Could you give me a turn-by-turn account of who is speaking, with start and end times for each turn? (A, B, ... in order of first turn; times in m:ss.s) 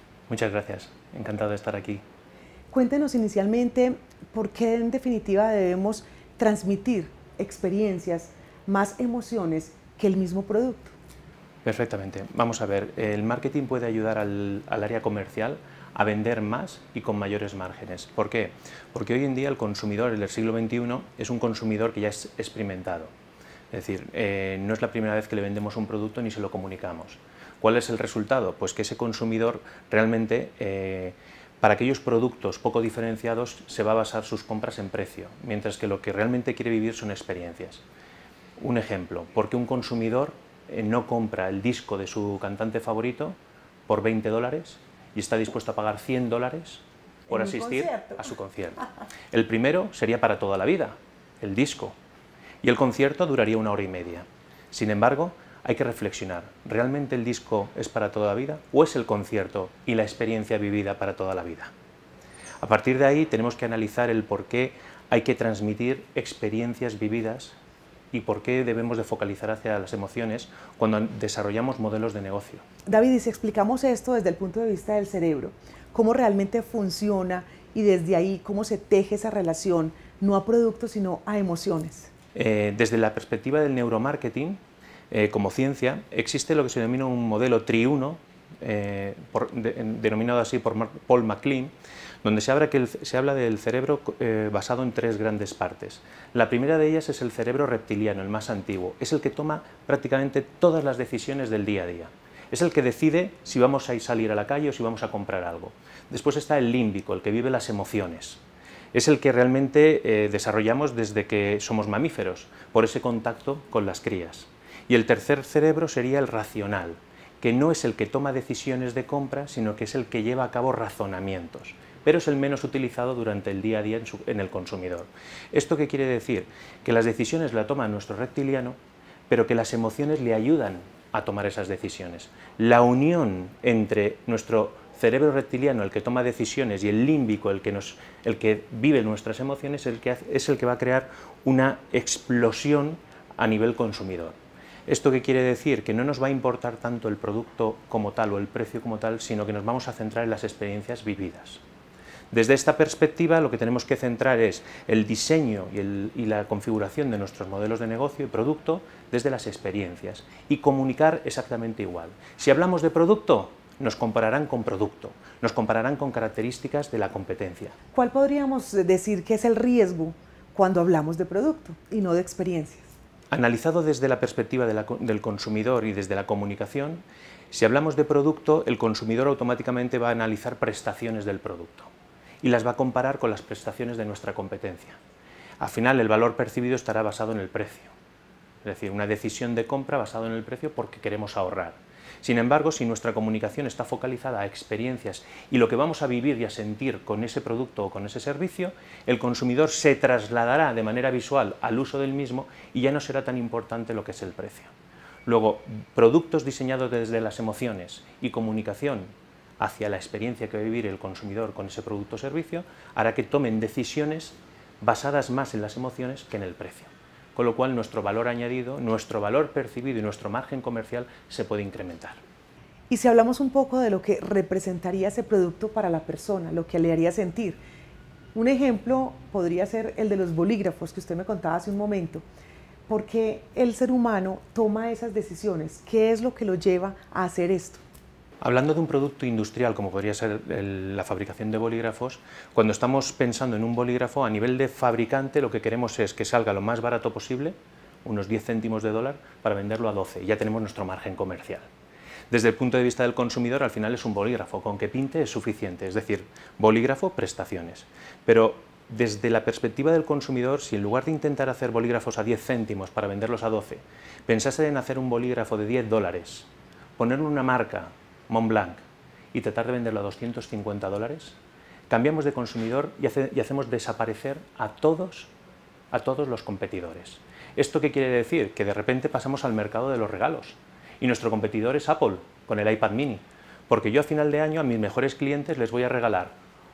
0:00.3-0:02.0 A
0:02.7-0:11.0 B
0:11.6-0:23.1 A
0:23.7-0:37.8 A
0:38.6-0:43.4 A
0:43.9-0:52.0 A
0:47.3-0:48.3 B
0:52.6-1:01.7 A
1:02.6-1:07.6 A
1:08.1-1:12.6 A
1:12.9-1:22.1 B
1:22.4-1:48.4 A
1:48.9-2:08.8 A
2:09.3-2:31.6 A
2:32.3-2:47.8 A
2:47.9-2:52.9 B
2:53.3-3:01.9 A
3:02.4-3:05.0 A
3:05.6-3:07.9 A
3:08.6-3:24.7 A
3:25.3-3:42.2 A
3:42.9-3:47.6 B
3:48.3-3:52.2 B
3:52.9-3:57.8 B
3:58.4-4:11.7 A
4:12.3-4:31.4 A
4:31.9-4:35.3 A
4:35.9-4:46.3 A